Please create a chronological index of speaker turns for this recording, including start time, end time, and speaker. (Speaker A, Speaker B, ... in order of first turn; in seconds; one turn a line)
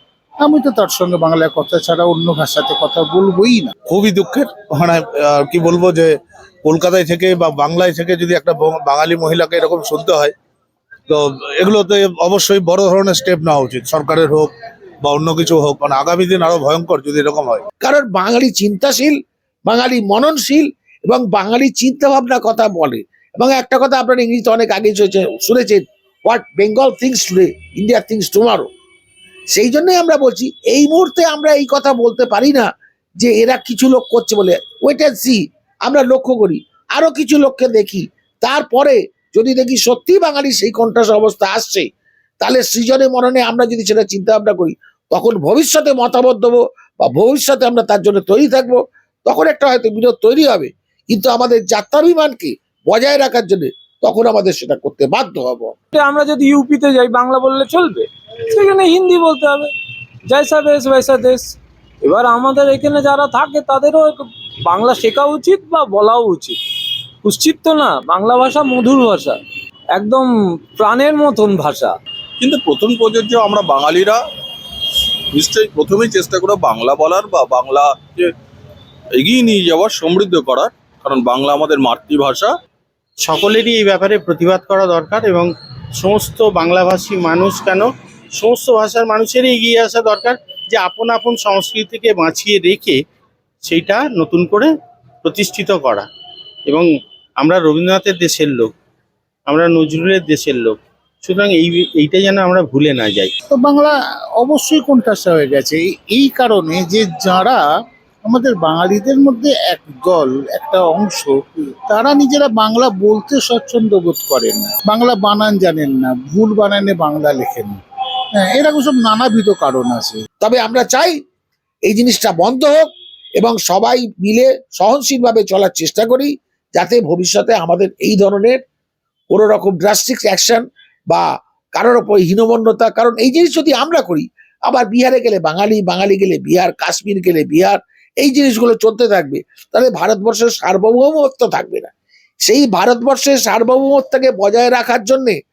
Speaker A: 0.4-3.7
Speaker B: 3.9-10.3
Speaker B: 11.1-14.5
Speaker B: 15.0-17.6
Speaker C: 17.8-19.1
Speaker C: 19.7-28.7
Speaker C: 29.5-32.7
Speaker C: 33.2-41.9
Speaker C: 42.4-55.7
Speaker D: 55.9-59.7
Speaker D: 60.3-66.6
Speaker D: 67.2-69.4
Speaker D: 69.9-71.9
Speaker E: 72.4-74.2
Speaker E: 75.3-78.3
Speaker E: 79.2-82.5
Speaker F: 83.2-93.0
Speaker F: 93.6-94.7
Speaker F: 95.2-96.1
Speaker F: 97.4-98.7
Speaker F: 99.5-103.3
Speaker A: 103.5-107.6
Speaker A: 108.2-117.8
Speaker A: 118.3-120.2
Speaker C: 120.4-121.1
Speaker C: 121.8-122.9
Speaker C: 123.4-128.6
Speaker C: 129.3-141.9
Speaker C: 142.4-145.4